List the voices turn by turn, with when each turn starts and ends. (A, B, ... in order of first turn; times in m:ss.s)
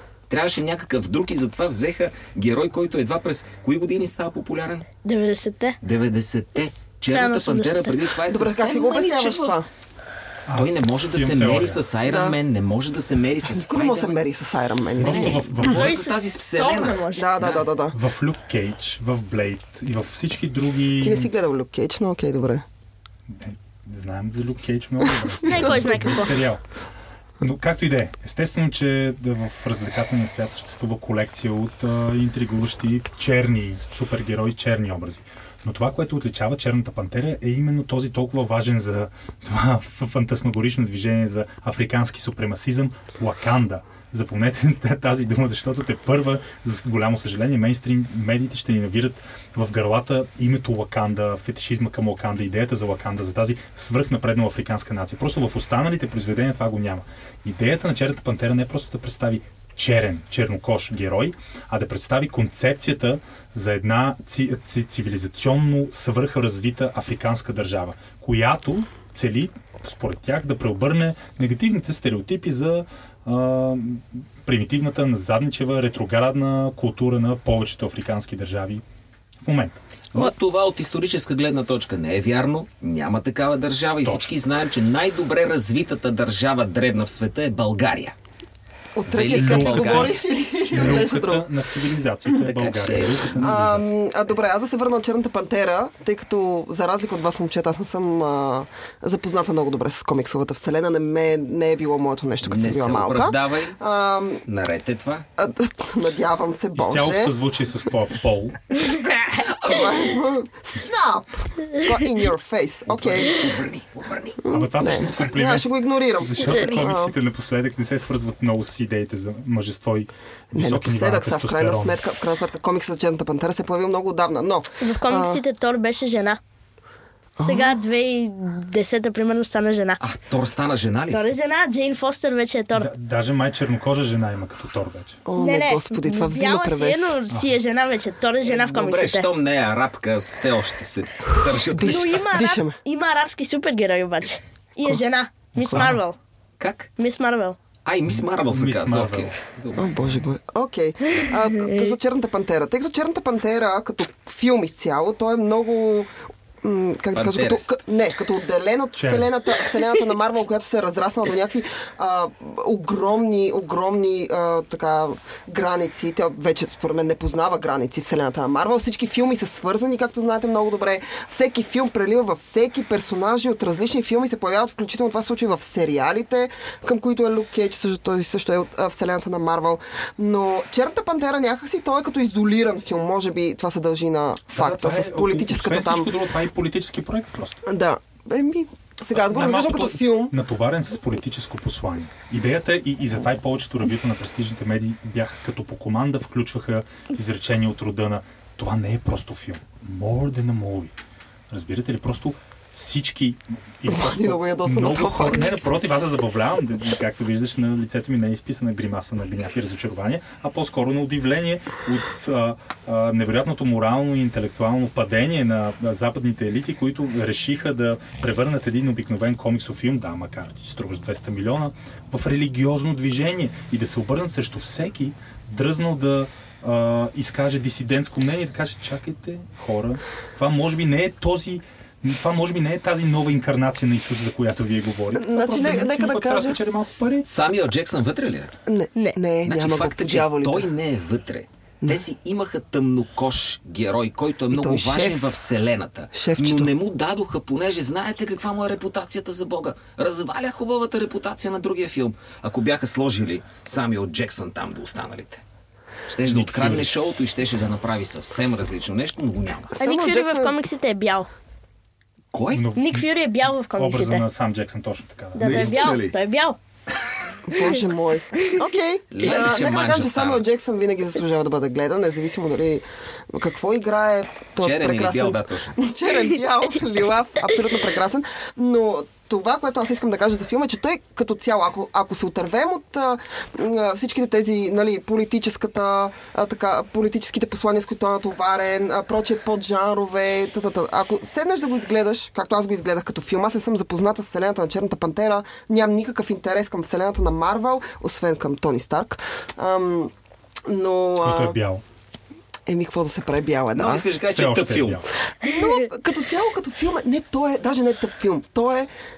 0:00.3-0:04.9 A
0:05.0-0:05.8 B
0:05.8-0:09.6 A
0:07.1-0:08.0 B
0:08.3-0:09.6 C
0:10.5-0:11.8 D
0:10.5-0:14.2 A
0:12.0-0:12.4 C
0:13.4-0:15.5 C
0:15.0-0:17.6 A
0:15.0-0:16.0 D
0:15.6-0:17.3 B
0:17.1-0:18.0 C
0:17.4-0:21.3 D
0:21.0-0:22.6 C
0:23.3-0:26.6 D
0:25.4-0:26.2 C
0:25.4-0:26.4 B
0:27.4-1:18.8 D
1:19.4-1:19.8 D
1:20.1-1:28.1 A
1:24.0-1:24.3 D
1:29.0-1:31.5 C
1:29.1-1:30.2 A
1:29.3-1:30.2 D
1:30.7-1:33.8 D
1:32.4-1:33.7 A
1:33.4-1:44.4 C
1:42.4-1:43.8 A
1:44.4-1:45.2 A
1:45.4-1:47.3 C
1:46.7-1:48.6 D
1:49.0-1:50.0 A
1:49.4-1:53.4 C
1:52.9-1:54.5 A
1:54.4-1:57.1 C
1:54.5-2:02.0 D
2:00.5-2:05.4 C
2:04.8-2:06.4 B
2:07.4-2:07.8 C
2:07.4-2:10.0 B
2:10.0-2:11.4 A
2:11.1-2:12.9 B
2:12.7-2:15.2 D
2:15.2-2:17.2 C
2:15.4-2:19.3 B
2:17.3-2:17.6 D
2:18.4-2:22.2 A
2:21.6-2:22.8 C
2:21.8-2:26.2 B
2:25.5-2:26.0 D
2:26.6-2:26.9 A
2:27.0-2:27.6 B
2:27.8-2:30.2 A
2:28.4-2:29.4 D
2:29.7-3:06.1 C
2:37.1-2:37.7 A
2:39.0-2:39.3 D
3:04.5-3:07.6 D
3:07.6-3:10.3 C
3:09.1-3:20.9 D
3:21.5-3:57.3 D
3:23.9-3:25.6 C
3:55.1-3:56.9 C
3:57.2-3:58.5 A
3:58.6-4:00.7 C
3:59.4-4:15.4 A
4:04.5-4:05.3 C
4:06.1-4:06.7 C
4:16.1-4:19.8 A
4:16.2-4:16.9 D
4:19.8-4:20.6 C
4:19.8-4:21.3 B
4:22.3-4:22.6 A
4:22.5-4:25.8 D
4:22.8-4:24.2 B
4:25.4-4:26.6 B
4:25.4-4:26.2 A
4:27.5-5:00.1 C
4:29.1-4:30.4 A
4:34.6-4:35.8 A
5:00.6-5:01.6 C
5:01.2-5:01.8 D
5:02.6-5:04.1 C
5:03.7-5:05.0 A
5:04.2-5:05.1 D
5:05.4-5:08.9 C